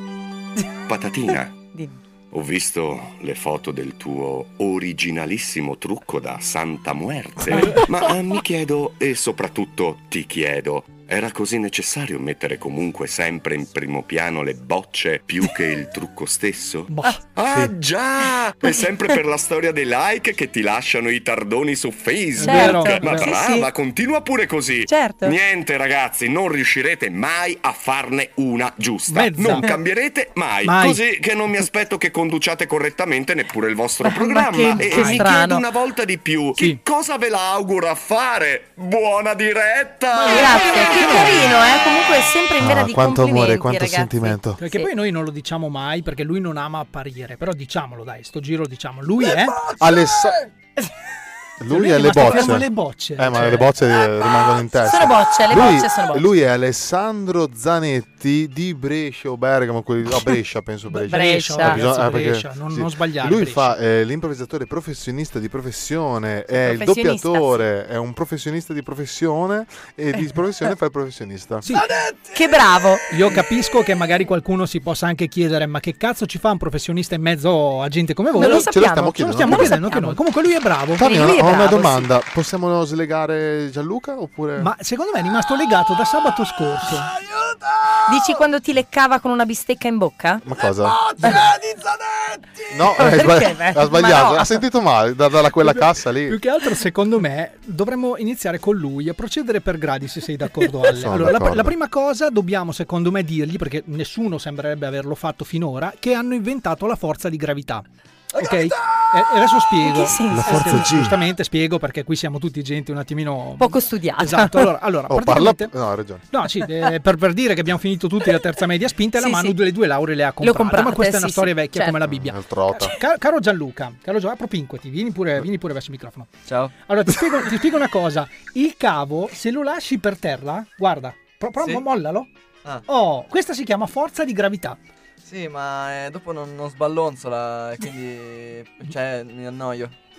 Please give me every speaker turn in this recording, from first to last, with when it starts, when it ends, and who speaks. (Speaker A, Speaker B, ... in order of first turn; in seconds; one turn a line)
Speaker A: 0.9-1.6
Speaker A: 2.3-41.7
Speaker B: 16.9-17.2
Speaker C: 17.5-17.7
Speaker B: 22.4-23.4
Speaker D: 22.4-23.7
Speaker D: 24.9-25.4
Speaker B: 29.1-29.7
Speaker B: 30.6-31.0
Speaker D: 34.0-35.6
Speaker B: 34.8-35.3
Speaker B: 40.2-41.4
Speaker D: 40.2-44.9
Speaker C: 42.6-44.6
Speaker B: 44.6-49.6
Speaker C: 49.8-50.4
Speaker C: 51.6-71.7
Speaker B: 51.7-53.7
Speaker D: 54.8-56.3
Speaker B: 60.9-63.8
Speaker D: 61.1-61.8
Speaker D: 66.5-67.7
Speaker B: 71.7-71.9
Speaker D: 72.3-73.1
Speaker B: 73.1-81.2
Speaker D: 78.3-80.2
Speaker C: 78.5-79.8
Speaker C: 81.0-84.7
Speaker D: 81.0-82.1
Speaker B: 84.6-87.1
Speaker D: 88.1-90.5
Speaker C: 90.4-91.0
Speaker B: 91.2-91.5
Speaker C: 92.7-96.4
Speaker D: 92.9-94.6
Speaker B: 95.6-107.8
Speaker C: 100.8-101.8
Speaker B: 108.4-115.7
Speaker D: 109.8-110.9
Speaker C: 110.3-111.2
Speaker D: 113.6-114.7
Speaker C: 115.1-116.2
Speaker B: 116.3-132.3
Speaker D: 119.1-119.6
Speaker D: 120.4-122.0
Speaker C: 122.0-122.9
Speaker E: 126.5-126.7
Speaker B: 132.9-134.8
Speaker E: 135.2-139.9